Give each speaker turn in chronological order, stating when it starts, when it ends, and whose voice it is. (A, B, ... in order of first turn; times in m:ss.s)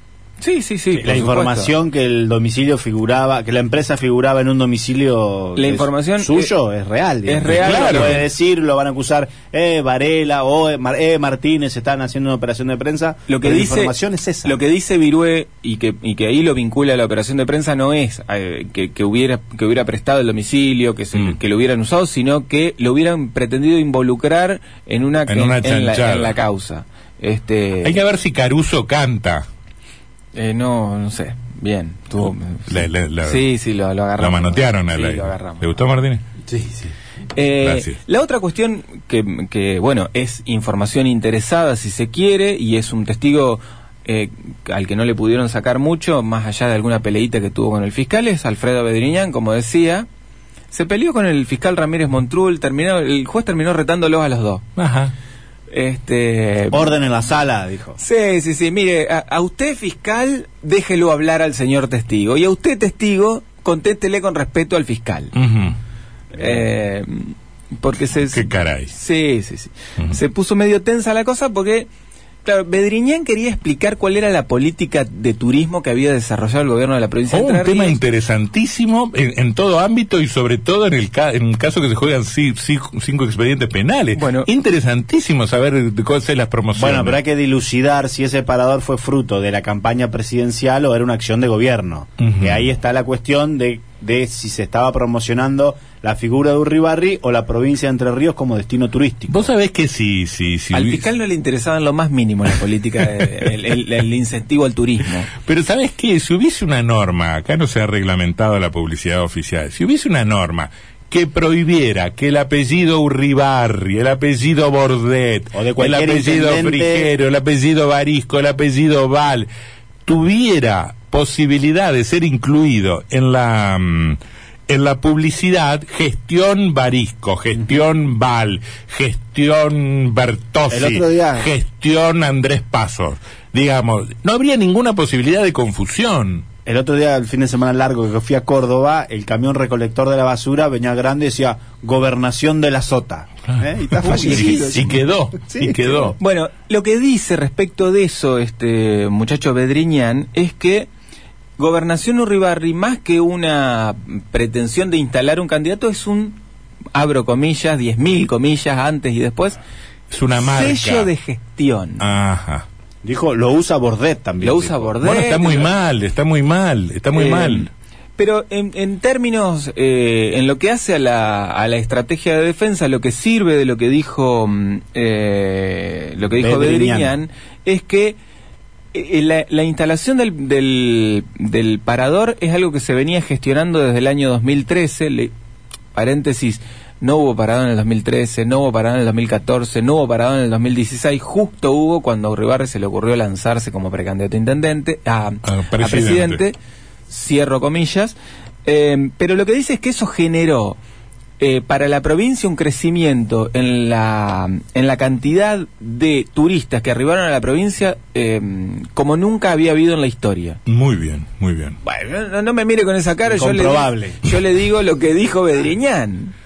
0:00.4-0:01.7 A
0:00.9-0:14.6 B
0:05.6-0:06.5 A
0:07.2-0:08.2 A
0:07.5-0:08.2 C
0:13.3-0:28.0 A
0:25.3-0:26.4 C
0:27.8-0:29.4 C
0:30.3-0:35.7 A
0:32.7-0:33.4 C
0:34.2-0:36.2 C
0:36.5-0:36.9 B
0:37.3-0:50.1 A
0:37.6-0:38.0 C
0:50.7-0:54.6 A
0:54.8-0:55.1 C
0:55.7-0:57.0 A
0:56.7-0:58.0 B
0:58.0-1:05.3 A
1:05.3-1:05.8 C
1:06.3-1:11.9 A
1:06.4-1:06.6 B
1:08.2-1:08.9 C
1:12.4-1:18.0 A
1:17.3-1:27.2 C
1:24.1-1:24.5 A
1:26.8-1:39.5 B
1:32.2-1:32.6 C
1:39.3-1:41.0 C
1:40.7-1:45.3 A
1:45.4-1:59.5 C
1:55.5-1:57.1 B
2:00.0-2:16.4 C
2:10.7-2:11.5 B
2:16.6-2:26.2 B
2:23.6-2:26.2 C
2:24.0-2:24.9 A
2:26.2-2:30.9 A
2:31.6-2:36.4 A
2:36.9-2:39.6 A
2:40.1-2:41.1 C
2:40.4-2:42.1 A
2:42.0-2:42.6 C
2:43.0-2:44.9 B
2:44.4-2:45.7 A
2:45.0-2:47.7 C
2:47.1-2:58.2 A
2:56.3-2:57.2 B
2:58.9-3:05.3 A
3:05.9-3:16.6 A
3:15.4-3:16.4 C
3:17.1-3:20.8 A
3:21.4-3:30.6 A
3:30.7-3:31.8 C
3:31.8-3:36.3 A
3:33.3-3:34.2 B